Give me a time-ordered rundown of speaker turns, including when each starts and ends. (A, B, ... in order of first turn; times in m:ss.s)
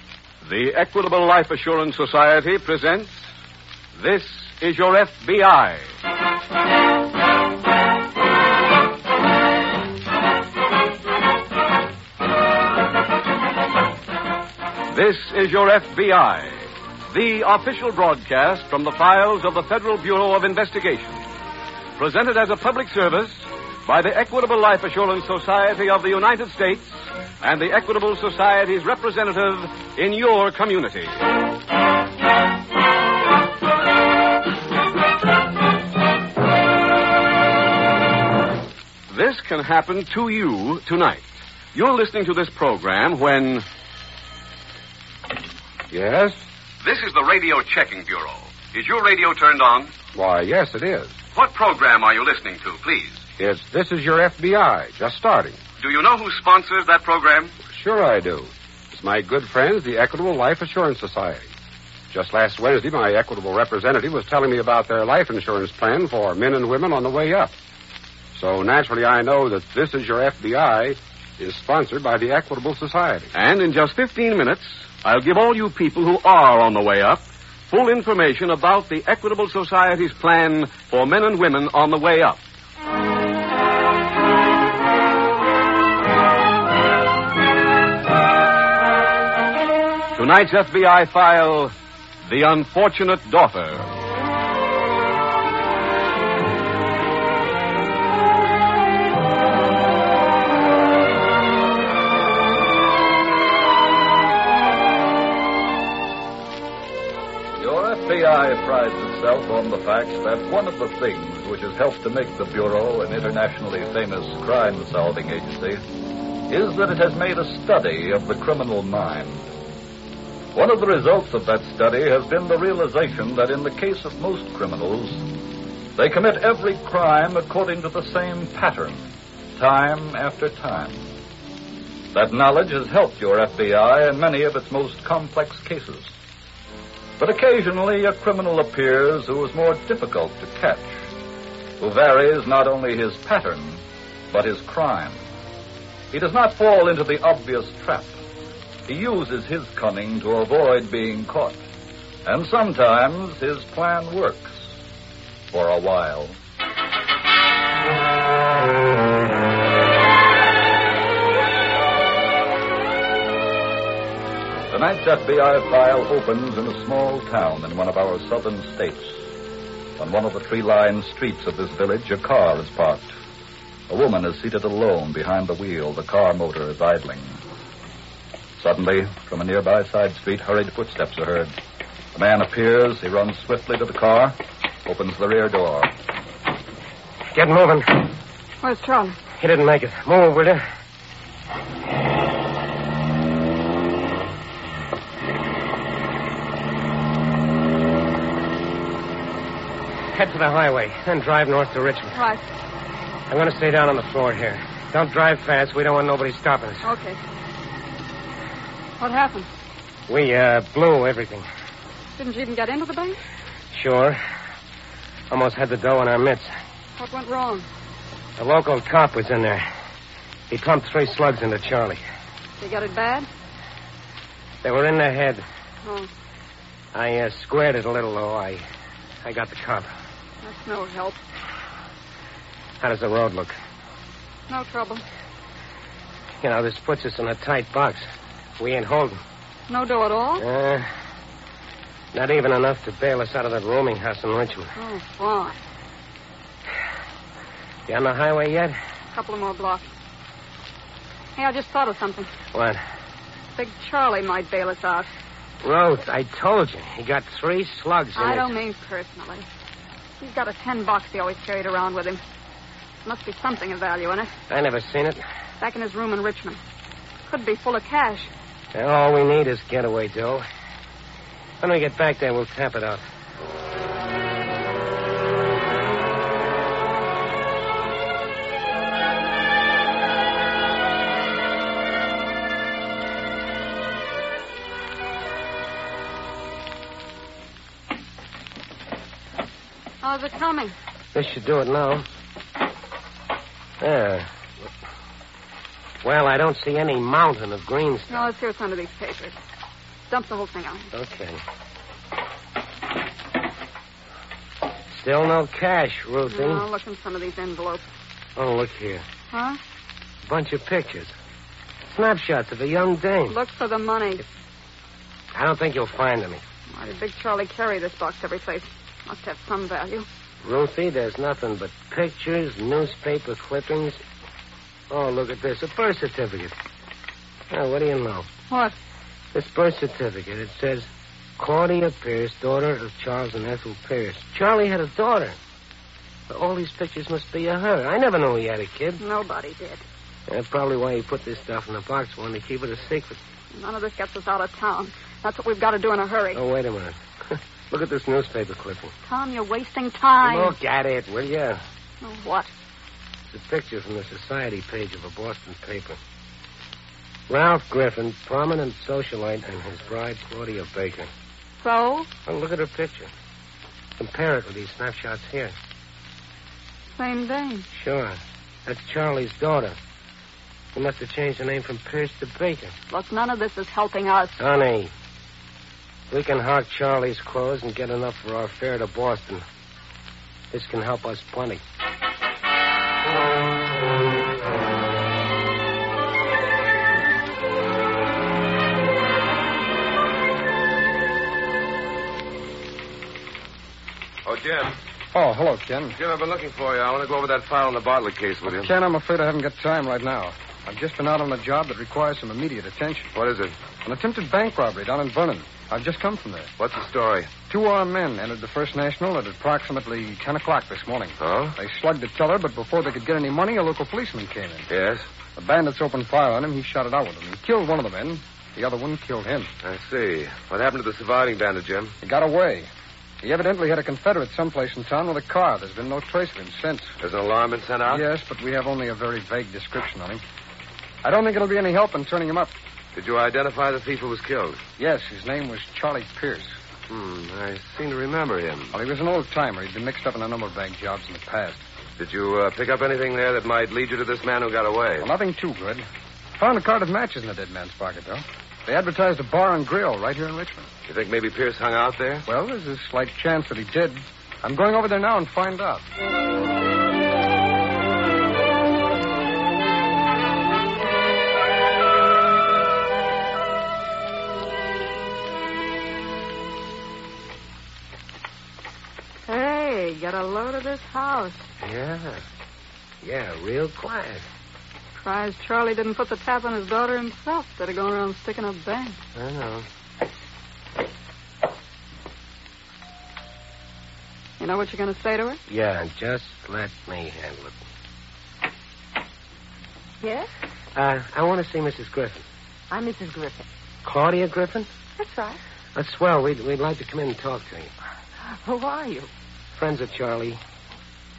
0:00.4-0:03.3 A
0:04.0-0:05.9 A
0:14.9-0:21.2 A
0:22.0-0:31.2 A
0:39.1-0:43.6 A
0:45.9-0:46.4 B
0:46.8-0:49.9 A
0:50.1-0:51.2 B
0:51.4-0:53.3 A
0:53.4-0:55.6 B
0:55.8-0:57.6 A
0:57.6-1:01.5 B
1:02.1-1:07.5 B
1:08.4-1:13.3 B
1:13.3-1:22.4 A
1:30.2-1:31.7 A
1:32.2-1:33.9 A
1:47.6-1:55.8 C
1:56.5-1:59.4 C
2:00.5-2:05.3 C
2:06.0-2:11.1 C
2:12.1-2:16.1 C
2:17.2-2:21.0 C
2:21.8-2:25.3 C
2:26.1-2:28.2 C
2:28.9-2:31.6 C
2:32.2-2:34.7 C
2:35.5-2:36.4 C
2:44.7-2:49.3 C
2:50.0-2:53.1 C
2:53.9-2:57.4 C
2:58.6-3:01.6 C
3:02.2-3:05.9 C
3:07.4-3:08.1 D
3:08.6-3:09.2 E
3:09.4-3:10.7 D
3:20.1-3:22.2 D
3:22.1-3:22.4 E
3:23.3-3:26.9 D
3:26.8-3:27.2 E
3:29.0-3:29.5 E
3:30.1-3:31.5 D
3:32.2-3:33.2 E
3:33.7-3:34.2 D
3:35.3-3:36.5 D
3:37.0-3:37.7 E
3:38.4-3:39.7 D
3:40.5-3:42.0 D
3:42.6-3:43.3 E
3:44.6-3:45.4 D
3:45.8-3:46.1 E
3:46.9-3:48.6 D
3:49.2-3:49.9 D
3:50.4-3:51.2 E
3:52.8-3:53.6 D
3:54.5-3:55.0 E
3:56.4-3:58.0 D
3:58.6-3:59.2 D
3:59.7-4:00.4 E
4:00.4-4:00.9 D
4:02.1-4:04.7 D
4:04.8-4:05.6 E
4:07.9-4:08.8 D
4:09.1-4:09.9 E
4:11.4-4:12.3 E
4:12.5-4:12.8 D
4:13.6-4:15.1 E
4:15.6-4:18.5 D
4:18.2-4:19.5 E
4:20.2-4:22.2 E
4:23.0-4:24.3 E
4:24.5-4:25.2 D
4:25.6-4:26.6 E
4:27.3-4:28.3 E
4:28.7-4:30.4 D
4:31.6-4:33.0 D
4:50.0-4:50.8 E
4:51.1-4:52.0 D
4:53.8-4:54.3 D
4:56.0-4:58.3 D
4:58.1-4:59.4 E
5:00.1-5:00.9 E
5:00.9-5:01.4 D
5:04.9-5:06.7 D
5:06.3-5:07.9 E
5:08.4-5:09.0 D
5:09.3-5:09.6 E
5:10.2-5:11.1 D
5:12.0-5:13.4 D
5:13.3-5:14.2 E
5:15.3-5:16.4 D
5:16.7-5:20.1 E
5:20.4-5:24.0 D
5:24.9-5:26.6 D
5:27.5-5:28.3 D
5:29.3-5:35.4 D
5:36.3-5:39.0 D
5:39.0-5:39.8 E
5:40.3-5:43.2 D
5:43.5-5:46.4 E
5:46.3-5:48.9 D
5:49.0-5:50.6 E
5:50.2-5:51.6 D
5:52.0-5:52.5 E
5:53.3-5:56.0 D
5:57.3-6:01.1 D
6:01.6-6:02.1 E
6:02.3-6:03.1 D
6:04.0-6:05.6 D
6:07.0-6:07.6 E
6:07.7-6:09.8 D
6:10.7-6:12.8 D
6:12.9-6:14.4 E
6:14.4-6:14.9 D
6:16.1-6:19.4 D
6:20.5-6:21.6 D
6:34.2-6:34.8 F
6:35.1-6:36.0 G
6:36.0-6:38.7 F
6:38.5-6:43.2 G
6:43.2-6:43.5 F
6:43.8-6:46.5 G
6:46.6-6:47.3 F
6:47.5-6:54.7 G
6:51.2-6:51.6 F
6:54.7-6:55.1 F
6:55.4-6:59.5 G
6:59.6-7:02.0 F
7:02.0-7:02.7 G
7:03.2-7:07.0 G
7:07.0-7:08.0 F
7:07.9-7:10.2 G
7:11.0-7:12.6 G
7:13.0-7:14.6 F
7:14.8-7:16.6 G
7:16.9-7:18.7 F
7:18.7-7:21.6 G
7:22.0-7:25.1 F
7:25.0-7:25.9 G
7:26.4-7:30.7 G
7:30.9-7:32.3 F
7:32.3-7:35.8 G
7:49.3-7:51.4 E
7:51.6-7:52.2 D
7:53.0-7:54.3 D
7:55.0-7:59.0 E
7:59.2-7:59.7 D
8:04.4-8:05.4 E
8:05.5-8:07.6 D
8:10.0-8:10.3 H
8:10.8-8:12.2 D
8:12.7-8:13.5 H
8:13.8-8:14.7 D
8:15.0-8:15.4 H
8:15.8-8:17.7 D
8:18.2-8:19.1 H
8:19.5-8:20.4 D